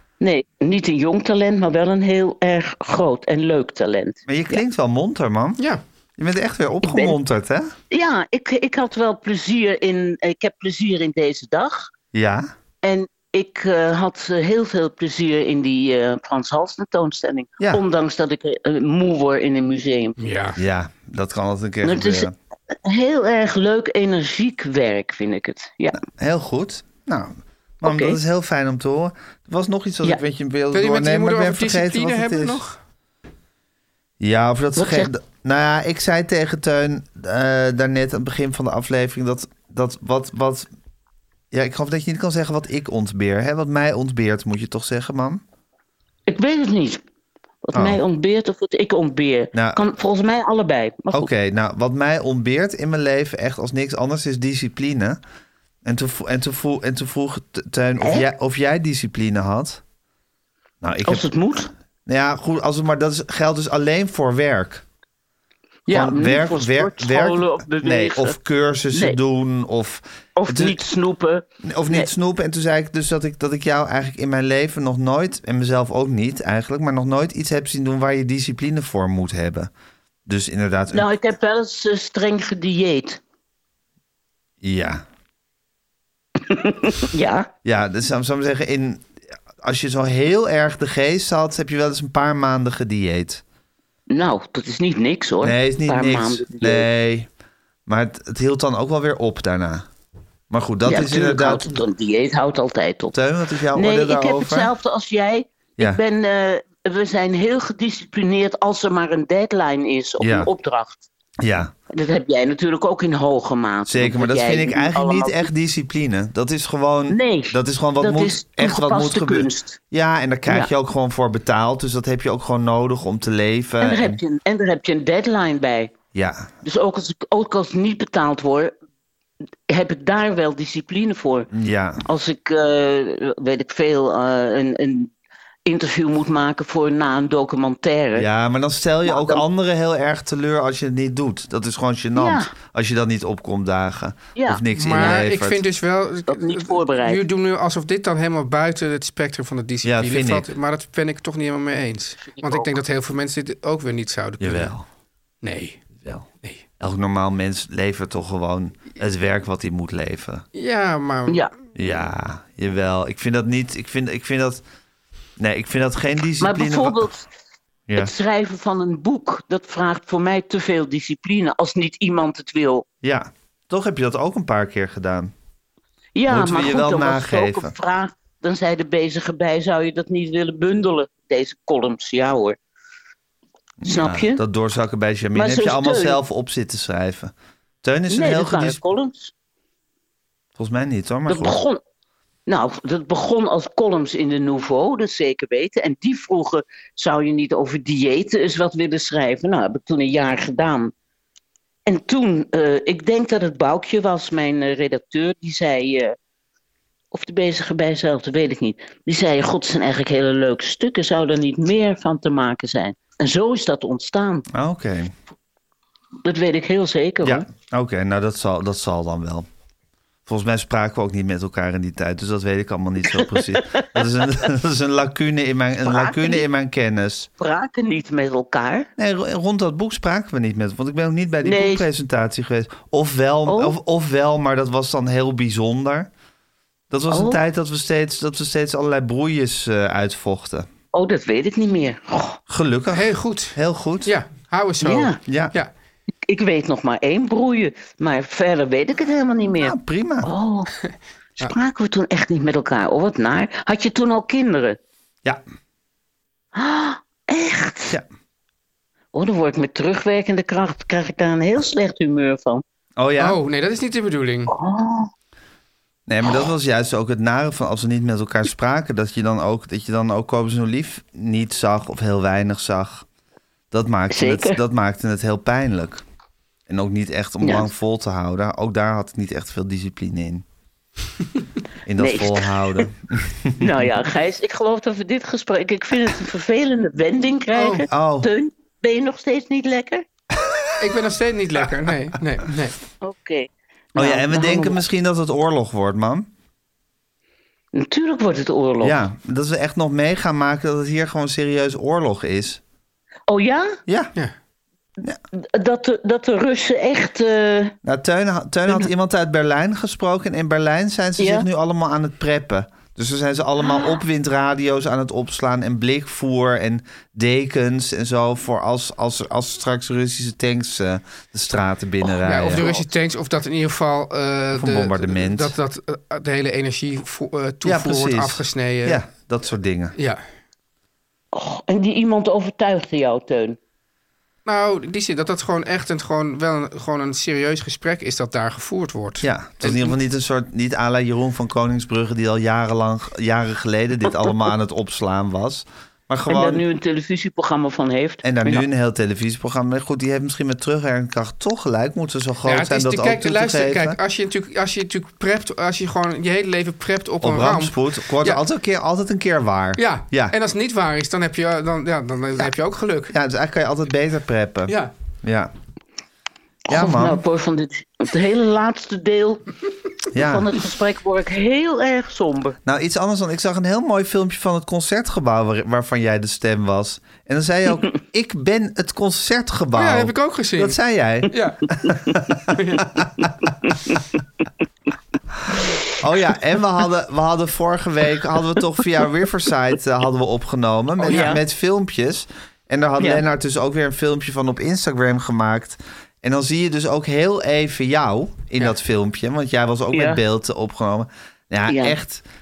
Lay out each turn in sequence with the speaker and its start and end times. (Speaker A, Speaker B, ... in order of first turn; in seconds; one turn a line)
Speaker A: 0.2-4.6
Speaker B: 4.3-5.6
Speaker B: 6.2-7.7
Speaker A: 6.8-7.2
Speaker A: 7.9-11.9
Speaker B: 12.1-12.5
Speaker A: 12.8-20.2
Speaker C: 20.2-20.6
Speaker B: 20.6-22.4
Speaker A: 21.8-26.0
Speaker B: 26.1-32.6
Speaker A: 27.8-28.2
Speaker C: 30.7-32.8
Speaker B: 34.2-40.7
Speaker A: 34.8-35.1
Speaker B: 41.5-45.4
Speaker A: 46.3-47.0
Speaker A: 47.7-51.3
Speaker B: 47.7-48.0
Speaker B: 49.5-49.8
Speaker B: 51.1-55.2
Speaker B: 55.9-59.8
Speaker A: 58.0-58.3
Speaker B: 60.8-61.3
Speaker A: 61.0-61.7
Speaker B: 62.1-64.8
Speaker A: 65.9-68.3
Speaker B: 65.9-70.8
Speaker A: 68.9-69.2
Speaker A: 70.4-72.1
Speaker B: 71.6-79.7
Speaker B: 80.3-81.1
Speaker A: 80.9-83.2
Speaker B: 84.6-85.0
Speaker A: 86.4-87.5
Speaker B: 87.7-89.1
Speaker B: 89.6-93.4
Speaker A: 94.1-96.9
Speaker B: 95.4-97.3
Speaker B: 97.9-99.9
Speaker B: 100.5-101.7
Speaker A: 100.9-103.2
Speaker B: 103.1-104.7
Speaker A: 103.7-111.0
Speaker B: 110.2-110.5
Speaker B: 111.4-111.7
Speaker A: 111.9-115.5
Speaker B: 113.9-124.2
Speaker A: 117.1-119.8
Speaker A: 123.8-126.0
Speaker B: 126.1-126.5
Speaker A: 126.6-128.8
Speaker A: 129.7-131.5
Speaker B: 131.5-132.1
Speaker A: 132.0-135.1
Speaker A: 135.7-138.3
Speaker B: 138.2-145.6
Speaker A: 139.1-139.4
Speaker A: 142.2-142.5
Speaker A: 144.3-144.6
Speaker C: 144.7-154.7
Speaker A: 146.3-147.2
Speaker B: 149.8-150.5
Speaker A: 152.3-152.7
Speaker B: 154.4-154.8
Speaker C: 155.4-155.8
Speaker B: 156.8-160.4
Speaker C: 160.6-161.5
Speaker B: 161.8-164.6
Speaker B: 165.4-167.1
Speaker A: 166.4-167.2
Speaker A: 168.0-172.9
Speaker B: 173.0-175.3
Speaker A: 176.2-182.6
Speaker B: 176.3-177.7
Speaker B: 183.8-188.8
Speaker A: 183.9-184.4
Speaker A: 185.3-186.2
Speaker A: 188.1-189.3
Speaker B: 190.6-191.6
Speaker A: 191.3-191.8
Speaker A: 192.5-200.9
Speaker A: 201.9-206.2
Speaker A: 207.1-214.5
Speaker B: 214.5-215.2
Speaker A: 216.2-217.5
Speaker B: 217.2-219.5
Speaker B: 220.3-227.3
Speaker A: 223.2-224.2
Speaker A: 225.8-226.4
Speaker A: 227.4-228.9
Speaker B: 229.0-236.1
Speaker A: 231.4-231.9
Speaker A: 233.5-233.8
Speaker B: 236.9-240.7
Speaker A: 237.1-237.4
Speaker A: 240.9-242.4
Speaker B: 242.5-244.1
Speaker C: 242.9-245.7
Speaker A: 244.8-245.2
Speaker B: 245.3-245.6
Speaker A: 246.3-250.7
Speaker B: 249.6-250.3
Speaker A: 251.4-254.8
Speaker A: 256.6-257.9
Speaker A: 259.1-262.6
Speaker B: 263.0-263.4
Speaker C: 263.2-264.5
Speaker A: 264.5-265.1
Speaker B: 266.1-273.1
Speaker B: 273.7-276.0
Speaker A: 274.1-274.6
Speaker B: 276.7-280.4
Speaker A: 277.4-277.7
Speaker B: 281.9-283.9
Speaker A: 282.0-282.9
Speaker A: 283.6-290.1
Speaker C: 287.5-287.9
Speaker B: 287.9-288.3
Speaker B: 290.4-291.0
Speaker C: 290.8-292.8
Speaker A: 293.0-294.8
Speaker B: 294.0-296.3
Speaker A: 297.7-299.0
Speaker B: 298.8-302.6
Speaker A: 303.3-303.8
Speaker B: 303.9-304.1
Speaker A: 305.4-307.8
Speaker B: 307.8-322.8
Speaker A: 311.2-311.4
Speaker C: 322.2-329.0
Speaker B: 324.6-325.6
Speaker B: 327.6-330.0
Speaker A: 331.3-333.6
Speaker C: 334.5-339.9
Speaker B: 339.2-346.6
Speaker A: 346.3-348.6
Speaker B: 348.2-354.0
Speaker C: 352.5-358.4
Speaker B: 357.2-360.4
Speaker C: 359.8-363.1
Speaker B: 363.1-365.5
Speaker A: 366.7-369.4
Speaker B: 366.7-367.2
Speaker B: 370.1-370.6
Speaker A: 370.1-372.6
Speaker B: 372.7-383.1
Speaker C: 379.7-380.8
Speaker C: 381.3-381.8
Speaker C: 382.5-383.0
Speaker A: 383.6-384.2
Speaker B: 385.5-402.2
Speaker C: 391.0-391.4
Speaker A: 391.1-391.4
Speaker A: 399.9-400.2
Speaker A: 401.7-402.0